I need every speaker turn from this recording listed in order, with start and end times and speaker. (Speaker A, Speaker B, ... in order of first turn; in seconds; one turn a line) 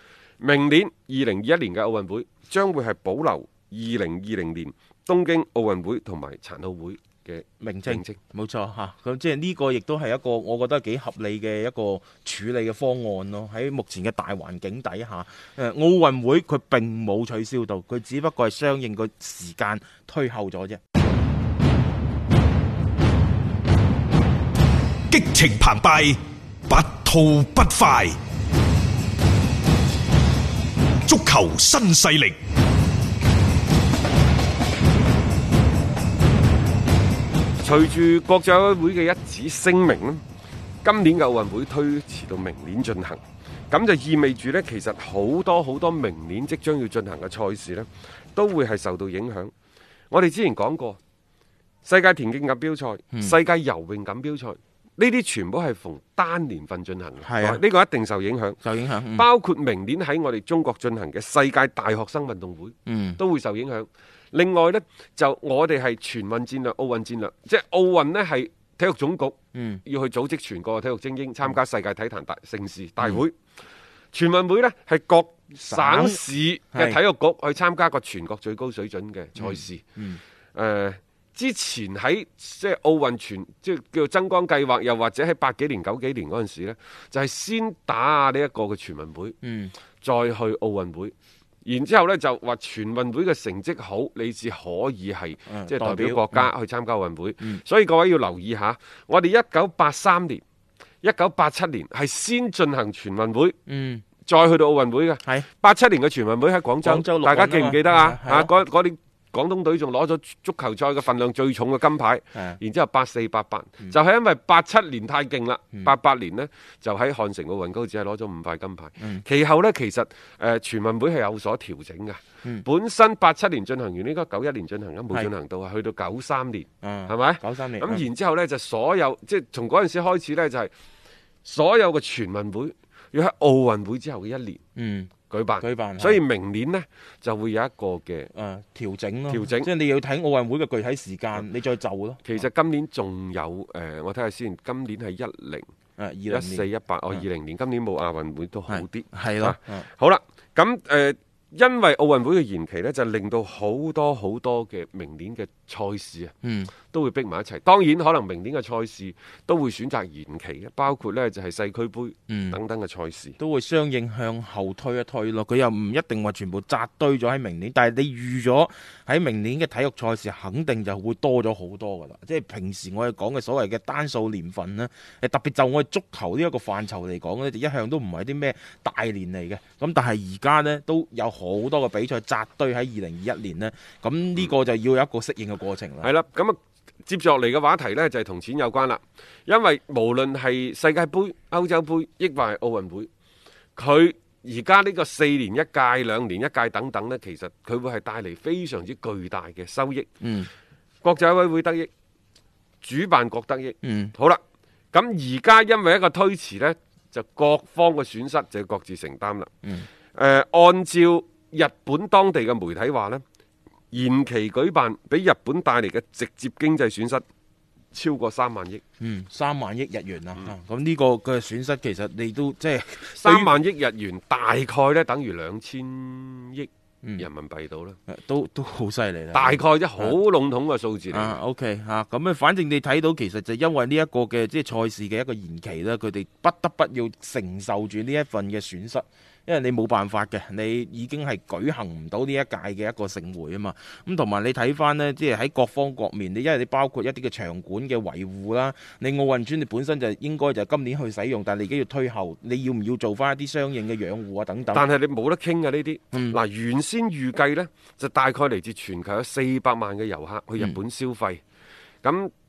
Speaker A: 0.4-8.2
Speaker B: 7.6-20.8
Speaker C: 25.1-26.2
Speaker C: 26.7-28.1
Speaker C: 31.1-32.4
Speaker A: 37.6-40.2
Speaker A: 40.8-49.5
Speaker A: 50.1-51.0
Speaker A: 51.8-58.6
Speaker B: 57.2-57.6
Speaker B: 58.6-59.3
Speaker A: 59.1-73.3
Speaker B: 62.9-63.2
Speaker B: 69.5-69.8
Speaker A: 74.1-79.8
Speaker B: 75.6-76.2
Speaker B: 76.7-77.0
Speaker B: 79.3-80.2
Speaker A: 80.5-89.3
Speaker B: 89.4-89.8
Speaker A: 90.0-91.1
Speaker A: 91.6-100.4
Speaker B: 95.5-96.5
Speaker A: 101.0-103.5
Speaker B: 103.7-104.0
Speaker A: 104.2-130.7
Speaker B: 106.8-108.5
Speaker B: 119.0-119.2
Speaker B: 126.8-128.0
Speaker A: 131.4-134.6
Speaker B: 134.8-136.2
Speaker A: 135.3-138.3
Speaker B: 138.3-142.4
Speaker A: 139.3-139.7
Speaker A: 142.2-145.7
Speaker B: 146.0-147.2
Speaker A: 146.3-163.4
Speaker B: 148.7-149.9
Speaker B: 156.4-156.7
Speaker B: 162.3-162.6
Speaker B: 163.4-186.1
Speaker A: 186.0-193.1
Speaker A: 193.8-200.1
Speaker B: 200.2-200.5
Speaker A: 201.0-201.9
Speaker A: 202.8-209.5
Speaker B: 203.8-204.2
Speaker A: 210.1-213.2
Speaker A: 213.9-217.2
Speaker A: 217.9-218.8
Speaker B: 219.0-223.6
Speaker A: 223.1-228.0
Speaker B: 228.1-230.2
Speaker A: 229.3-231.4
Speaker B: 231.1-254.8
Speaker A: 254.7-261.4
Speaker A: 262.0-262.3